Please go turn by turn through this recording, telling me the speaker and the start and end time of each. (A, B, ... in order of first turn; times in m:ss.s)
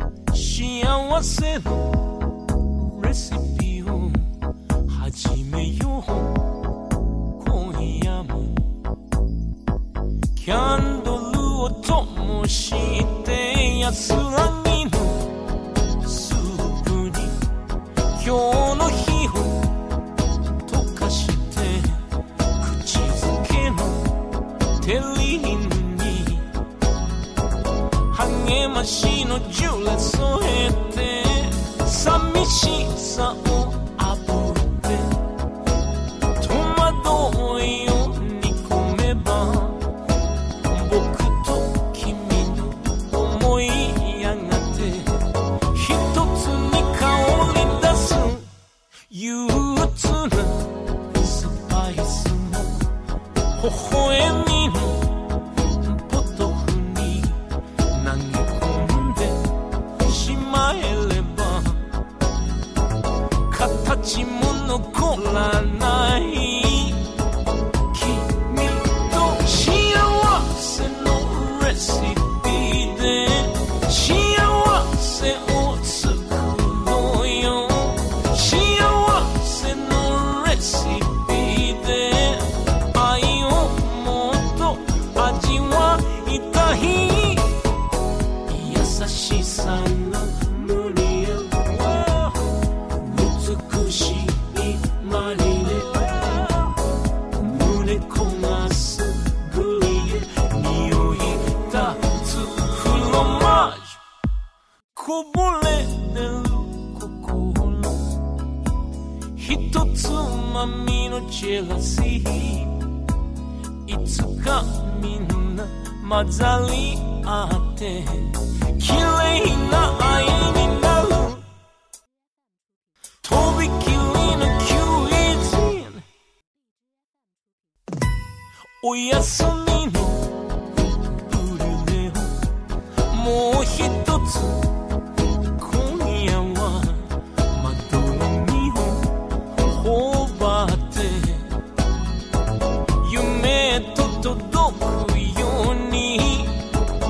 0:00.3-0:02.1 A
0:02.7-0:04.3 A
0:04.8-0:06.5 A
0:07.4-0:08.7 A
0:10.3-0:15.4 A
0:16.0-0:17.5 A
0:18.1-0:19.8 A
0:20.6-0:22.0 A
0:22.6-0:24.2 A
0:24.8-0:26.5 A
0:28.1-0:35.2 A
0:36.4-0:39.8 A
0:40.6-0:48.5 A
0:49.1-0:52.9 A
0:53.5-0:55.2 A
0:55.8-1:01.9 A
1:03.5-1:07.1 A
1:07.9-1:27.6 A
1:28.5-1:36.8 A
1:37.3-1:44.0 A
1:44.9-1:48.2 A
1:49.3-1:52.9 A
1:53.8-2:01.5 A
2:03.2-2:06.0 A
2:08.8-2:10.5 A
2:11.1-2:12.5 A
2:13.1-2:14.7 A
2:15.6-2:21.6 A
2:23.0-2:26.7 A